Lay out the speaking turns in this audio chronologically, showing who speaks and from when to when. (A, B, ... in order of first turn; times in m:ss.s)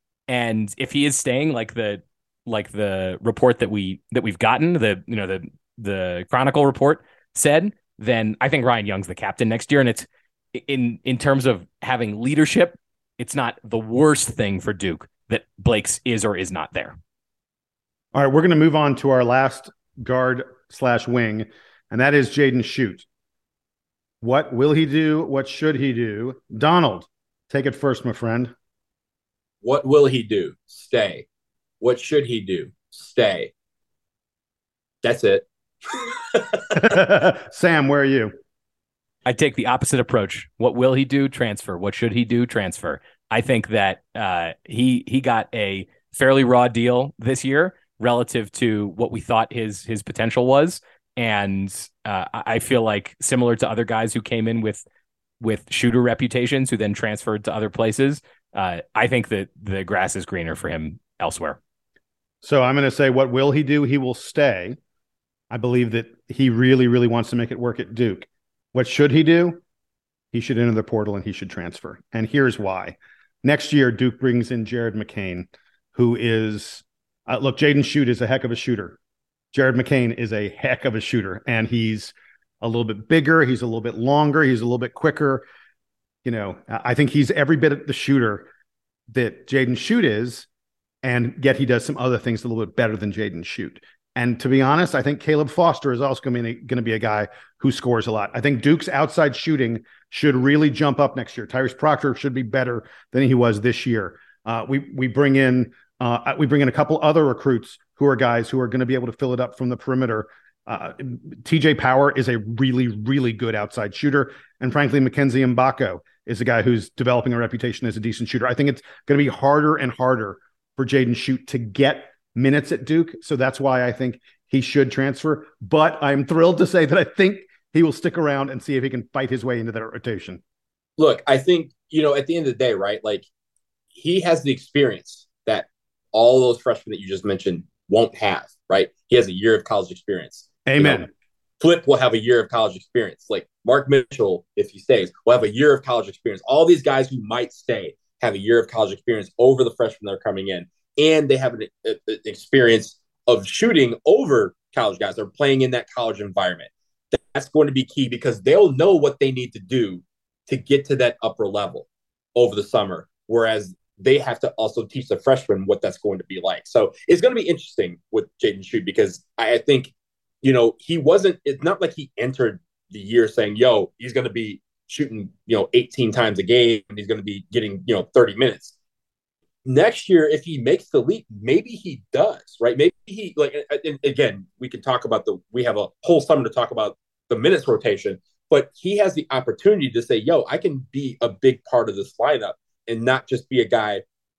0:00.3-0:17.0 A
0:18.1-0:23.0 B
0:24.2-0:28.5 B
0:29.6-0:31.2 C
0:31.8-0:33.5 C
0:35.0-0:37.0 C
0:36.7-0:38.3 B
0:39.2-0:54.8 A
0:55.4-1:01.6 A
1:02.4-1:04.8 B
1:05.5-1:09.6 B
1:10.3-1:19.0 B
1:19.5-1:25.4 B
1:26.2-1:28.5 B
1:29.1-1:30.5 B
1:31.0-2:10.4 B
2:11.0-2:13.2 C
2:13.9-2:21.1 C
2:20.6-2:21.1 B
2:21.6-2:49.9 C
2:50.4-2:58.7 C
2:59.6-3:14.0 C